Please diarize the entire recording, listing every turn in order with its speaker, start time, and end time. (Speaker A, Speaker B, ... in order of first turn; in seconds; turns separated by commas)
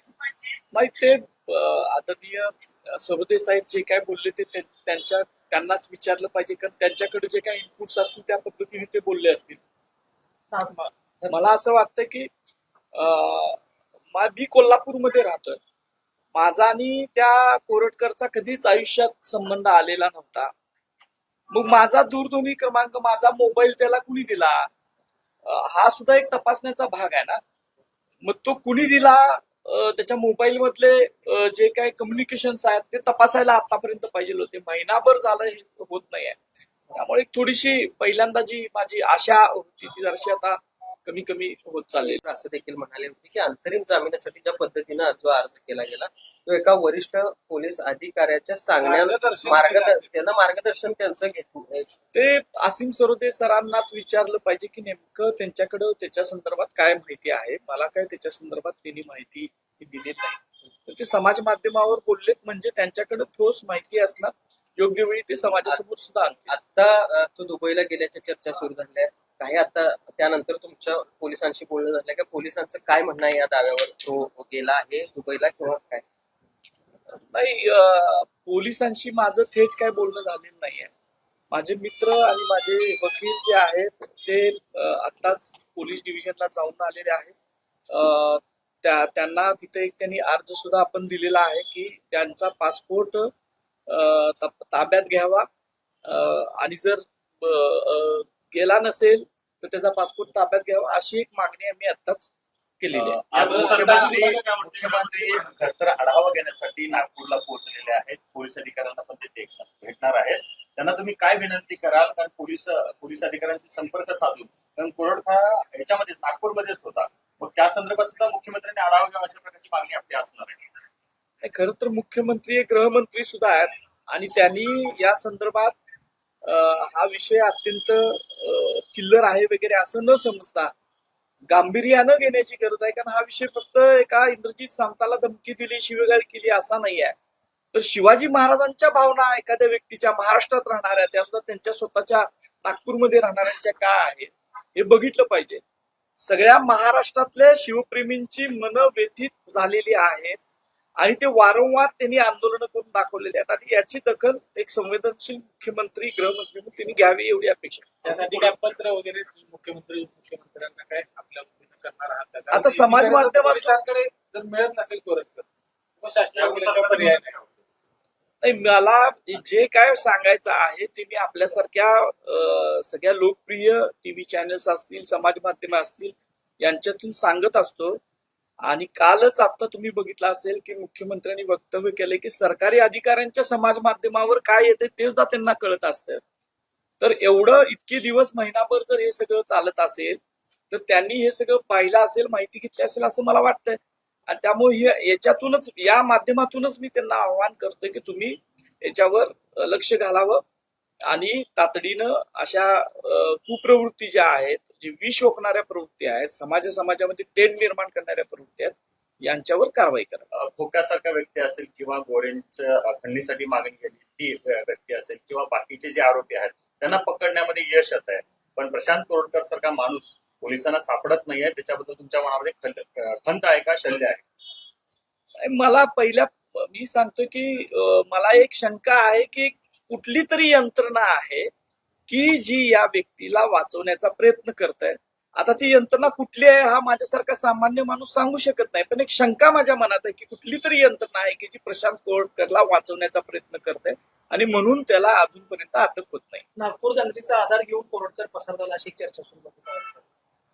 Speaker A: 0.7-9.6, Speaker B: 10.5-11.3, Speaker A: 11.3-12.3, Speaker A: 12.9-15.6, Speaker A: 16.3-20.5, Speaker A: 21.5-24.7, Speaker A: 25.4-27.4, Speaker A: 28.2-36.4, Speaker A: 37.0-42.2, Speaker C: 42.0-51.9, Speaker D: 48.8-50.1, Speaker A: 52.1-66.5, Speaker C: 66.5-76.0, Speaker A: 77.2-80.9, Speaker A: 81.5-87.3, Speaker A: 87.9-93.3, Speaker A: 93.9-95.5, Speaker A: 96.1-103.2, Speaker E: 102.9-120.8, Speaker D: 103.4-104.4, Speaker A: 103.7-104.4, Speaker A: 121.4-125.8, Speaker A: 126.4-130.7, Speaker A: 131.5-137.2, Speaker A: 137.7-145.6, Speaker A: 146.2-150.4, Speaker A: 151.0-158.5, Speaker D: 158.0-165.4, Speaker A: 162.5-163.8, Speaker D: 166.0-167.4, Speaker E: 166.3-167.3, Speaker A: 168.4-178.0, Speaker A: 178.7-186.2, Speaker A: 187.0-200.4, Speaker A: 201.1-210.3, Speaker E: 210.3-224.2, Speaker A: 225.4-231.5, Speaker A: 232.1-246.5, Speaker B: 246.6-250.0